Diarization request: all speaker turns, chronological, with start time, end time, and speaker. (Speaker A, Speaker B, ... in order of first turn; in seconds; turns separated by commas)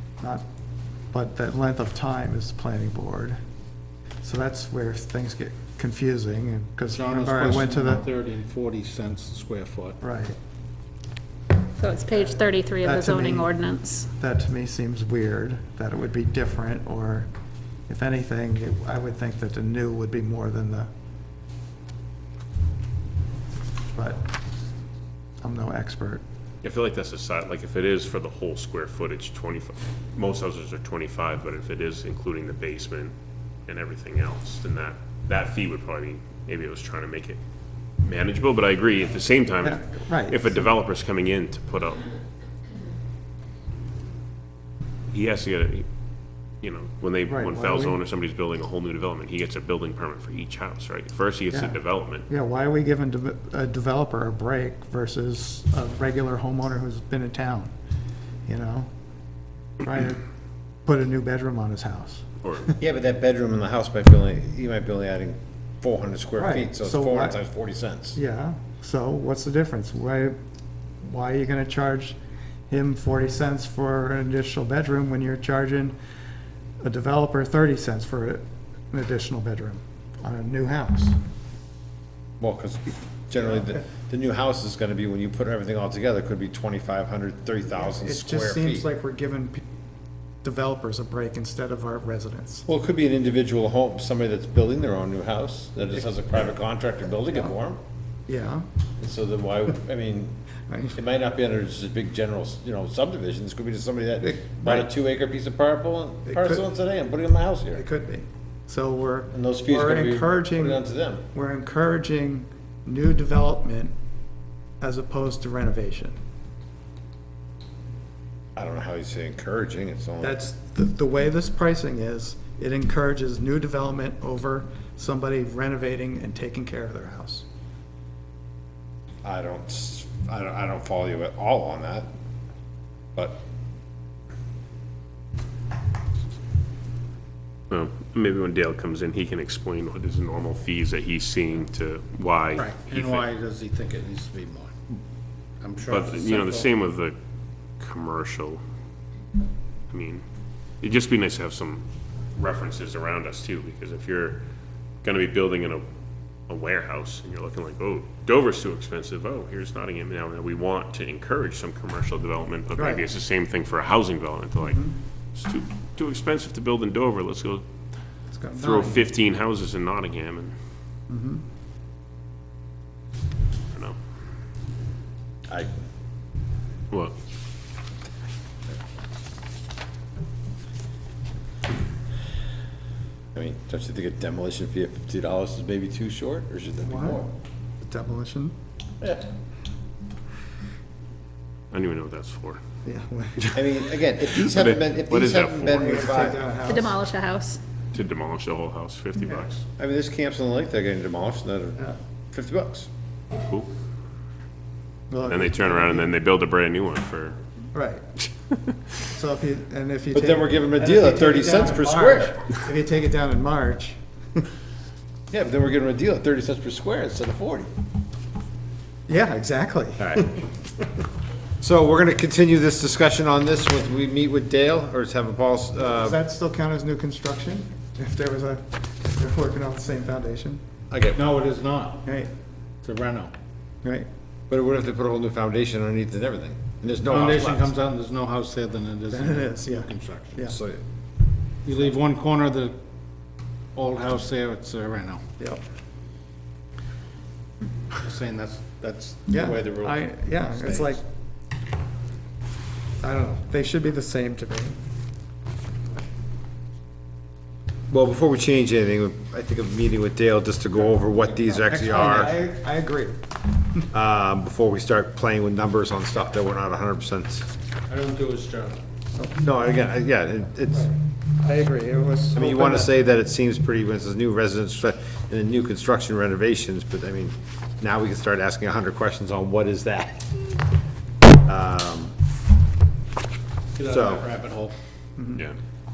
Speaker A: 1.1-3.4, Speaker A: 4.2-8.0, Speaker B: 6.9-10.0, Speaker A: 10.0-10.4, Speaker C: 11.8-14.1, Speaker A: 12.8-13.5, Speaker A: 14.1-17.3, Speaker A: 17.9-20.9, Speaker A: 23.9-24.2, Speaker A: 25.4-26.2, Speaker D: 26.6-33.1, Speaker D: 33.7-37.4, Speaker D: 38.0-42.1, Speaker A: 39.6-40.7, Speaker D: 45.1-45.9, Speaker D: 46.6-52.3, Speaker A: 47.2-48.0, Speaker A: 51.5-57.7, Speaker A: 58.5-58.9, Speaker A: 59.8-60.2, Speaker A: 60.9-62.7, Speaker D: 62.4-62.7, Speaker E: 62.8-68.2, Speaker A: 66.4-67.4, Speaker A: 68.1-70.3, Speaker A: 71.0-72.2, Speaker A: 72.7-75.9, Speaker A: 76.8-81.2, Speaker E: 82.4-88.8, Speaker A: 87.7-89.6, Speaker A: 90.4-92.7, Speaker E: 92.7-97.8, Speaker A: 98.3-98.7, Speaker E: 99.0-100.3, Speaker A: 100.7-101.0, Speaker E: 100.9-107.8, Speaker A: 104.2-104.9, Speaker A: 106.2-106.7, Speaker A: 107.7-113.9, Speaker E: 109.3-111.2, Speaker A: 114.8-116.2, Speaker E: 118.5-120.4, Speaker A: 120.2-127.4, Speaker E: 129.2-132.1, Speaker D: 137.7-143.3, Speaker B: 142.5-144.7, Speaker B: 145.6-146.7, Speaker D: 145.9-147.2, Speaker D: 147.8-148.6, Speaker D: 149.9-150.2, Speaker D: 150.8-154.4, Speaker D: 155.0-155.8, Speaker D: 156.5-167.7, Speaker A: 162.8-163.0, Speaker A: 164.6-164.9, Speaker A: 168.3-169.0, Speaker D: 168.5-170.5, Speaker A: 171.1-171.4, Speaker E: 183.3-187.3, Speaker A: 186.8-187.3, Speaker A: 187.8-188.5, Speaker D: 191.7-192.6, Speaker A: 192.8-193.6, Speaker E: 193.5-196.4, Speaker D: 194.2-196.1, Speaker A: 195.7-197.0, Speaker C: 196.7-197.6, Speaker D: 197.9-199.6, Speaker E: 199.8-202.9, Speaker D: 203.4-203.7, Speaker A: 205.1-206.1, Speaker D: 205.2-207.4, Speaker A: 207.7-208.0, Speaker A: 209.1-214.5, Speaker E: 210.1-212.4, Speaker E: 215.3-217.7, Speaker A: 219.1-220.4, Speaker E: 220.0-220.2, Speaker E: 221.6-226.2, Speaker A: 226.0-230.6, Speaker E: 230.9-231.2, Speaker B: 231.1-232.1, Speaker A: 232.0-232.3, Speaker B: 232.8-233.3, Speaker E: 234.5-237.7, Speaker B: 237.0-240.4, Speaker A: 239.1-240.6, Speaker E: 240.5-240.8, Speaker B: 241.6-242.7, Speaker B: 243.7-245.2, Speaker B: 247.9-251.0, Speaker A: 249.3-251.0, Speaker A: 253.0-254.8, Speaker E: 257.9-262.3, Speaker A: 261.5-263.2, Speaker E: 263.9-267.5, Speaker B: 267.9-268.8, Speaker E: 269.3-270.9, Speaker A: 270.7-272.9, Speaker E: 272.3-280.4, Speaker E: 281.4-282.1, Speaker B: 283.7-284.7, Speaker E: 283.8-284.3